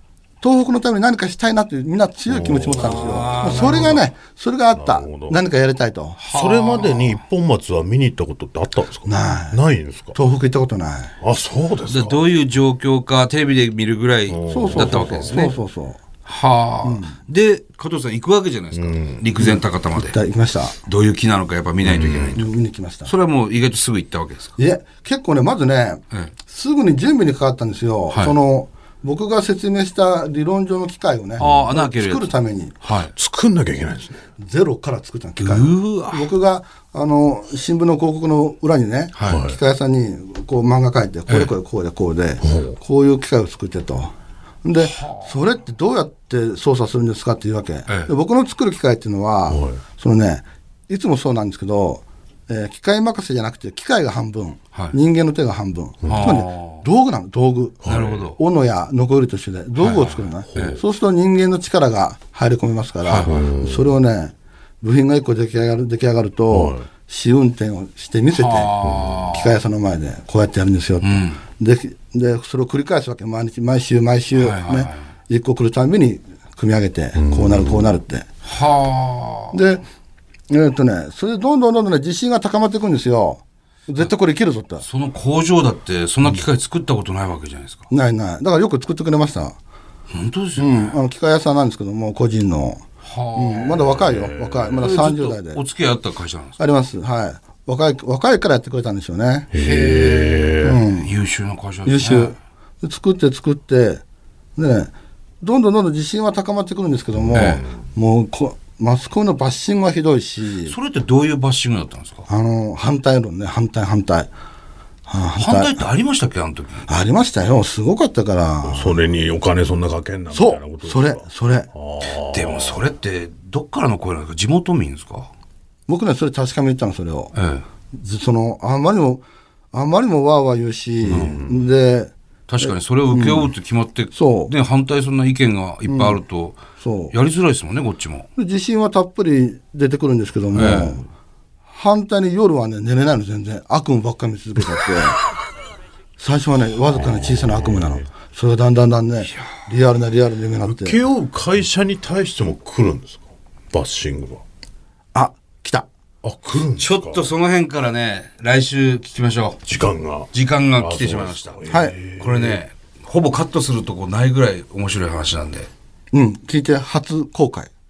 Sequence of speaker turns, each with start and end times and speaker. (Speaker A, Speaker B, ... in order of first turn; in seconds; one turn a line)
Speaker A: 0.4-6.2
Speaker B: 2.3-3.8
Speaker C: 2.8-4.0
Speaker B: 4.7-5.4
Speaker C: 6.2-7.2
Speaker B: 6.3-10.1
Speaker A: 9.0-9.6
Speaker A: 10.1-11.1
Speaker B: 11.2-12.2
Speaker C: 11.9-15.6
Speaker B: 14.3-15.4
Speaker A: 14.5-16.0
Speaker C: 16.2-20.2
Speaker A: 16.8-17.1
Speaker B: 18.7-19.2
Speaker A: 19.4-20.8
Speaker C: 20.8-22.5
Speaker B: 21.8-22.4
Speaker A: 22.3-23.1
Speaker C: 23.1-24.5
Speaker A: 24.6-32.8
Speaker C: 28.1-28.4
Speaker C: 31.4-32.3
Speaker B: 31.4-31.7
Speaker C: 32.8-33.1
Speaker B: 33.1-34.1
Speaker A: 34.4-44.1
Speaker C: 35.4-36.3
Speaker C: 39.1-39.4
Speaker B: 39.2-39.6
Speaker B: 42.4-42.8
Speaker A: 44.6-78.2
Speaker C: 44.8-45.3
Speaker B: 49.5-49.8
Speaker B: 56.0-56.3
Speaker C: 56.0-56.8
Speaker B: 57.8-58.2
Speaker C: 57.8-58.4
Speaker C: 59.8-60.8
Speaker B: 60.5-60.8
Speaker C: 63.0-63.3
Speaker B: 63.2-63.9
Speaker B: 66.5-66.8
Speaker C: 68.3-69.5
Speaker B: 68.8-69.3
Speaker C: 71.0-71.4
Speaker C: 74.4-75.1
Speaker B: 77.1-78.0
Speaker C: 78.4-79.6
Speaker A: 79.5-79.8
Speaker A: 80.5-84.8
Speaker C: 84.8-87.8
Speaker A: 87.9-89.6
Speaker C: 90.1-91.0
Speaker A: 90.6-92.8
Speaker C: 93.0-93.9
Speaker A: 93.3-95.6
Speaker B: 93.8-94.8
Speaker C: 94.8-96.6
Speaker A: 96.6-100.1
Speaker B: 99.5-100.8
Speaker C: 99.5-102.3
Speaker A: 100.6-101.1
Speaker A: 101.8-104.0
Speaker A: 104.5-110.7
Speaker B: 107.2-107.8
Speaker C: 107.3-107.6
Speaker C: 110.7-112.2
Speaker A: 112.3-114.3
Speaker A: 115.1-115.9
Speaker C: 115.4-116.9
Speaker A: 116.9-119.0
Speaker B: 118.6-122.8
Speaker A: 120.3-121.7
Speaker C: 122.2-125.3
Speaker A: 125.9-127.3
Speaker C: 127.3-127.6
Speaker A: 127.9-133.5
Speaker B: 131.0-131.6
Speaker C: 131.1-131.4
Speaker C: 132.5-136.6
Speaker A: 134.1-134.5
Speaker A: 135.9-136.2
Speaker A: 136.8-137.1
Speaker C: 137.1-138.3
Speaker A: 138.3-141.0
Speaker C: 140.5-141.0
Speaker B: 140.6-140.9
Speaker A: 141.7-145.2
Speaker A: 146.2-151.0
Speaker B: 146.9-148.0
Speaker C: 149.2-149.5
Speaker B: 150.6-154.4
Speaker A: 155.1-155.9
Speaker B: 156.2-157.3
Speaker C: 156.8-159.6
Speaker B: 159.7-162.6
Speaker C: 160.3-161.6
Speaker A: 161.7-161.9
Speaker C: 162.2-165.7
Speaker A: 166.1-167.7